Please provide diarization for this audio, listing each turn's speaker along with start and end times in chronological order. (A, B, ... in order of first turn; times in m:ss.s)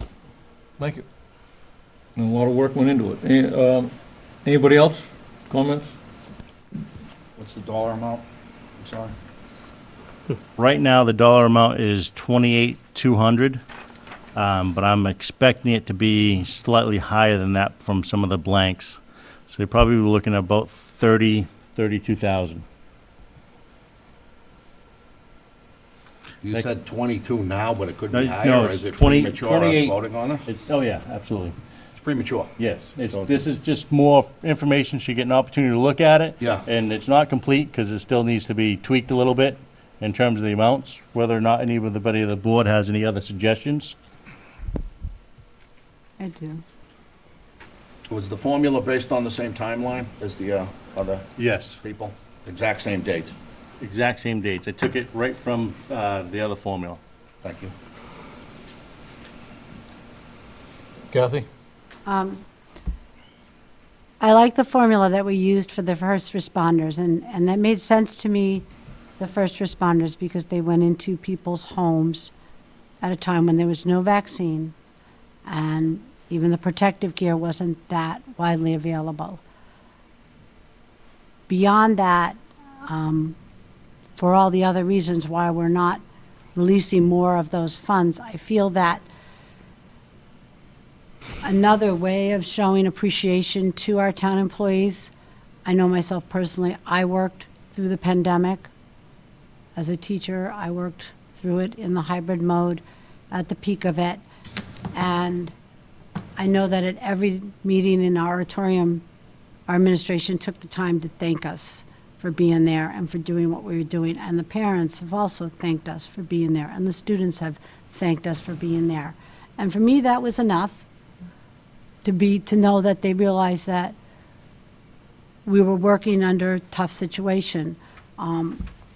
0:00.8-0:01.0 A
0:02.2-0:03.9 A
0:04.4-0:05.9 A
0:07.4-0:08.2 B
0:08.8-0:09.1 B
0:10.6-0:13.6 C
0:14.3-0:22.6 C
0:26.4-0:30.4 B
0:28.1-0:31.5 C
0:32.0-0:32.5 B
0:32.6-0:44.0 C
0:36.4-0:36.6 B
0:46.2-0:46.6 D
0:48.1-0:51.3 B
0:51.4-0:51.8 C
0:51.8-0:53.3 B
0:53.8-0:57.0 C
0:57.4-0:57.7 B
1:01.1-1:01.5 A
1:02.0-1:02.4 D
1:04.2-1:08.6 D
1:09.2-1:12.3 D
1:13.0-1:14.7 D
1:15.4-1:19.4 D
1:21.5-1:23.4 D
1:24.2-1:26.0 D
1:26.5-1:29.0 D
1:31.4-1:35.1 D
1:35.6-1:38.7 D
1:39.8-1:44.2 D
1:44.9-1:45.5 D
1:46.4-1:49.0 D
1:49.7-2:00.8 D
2:02.0-2:03.9 D
2:05.4-2:08.6 D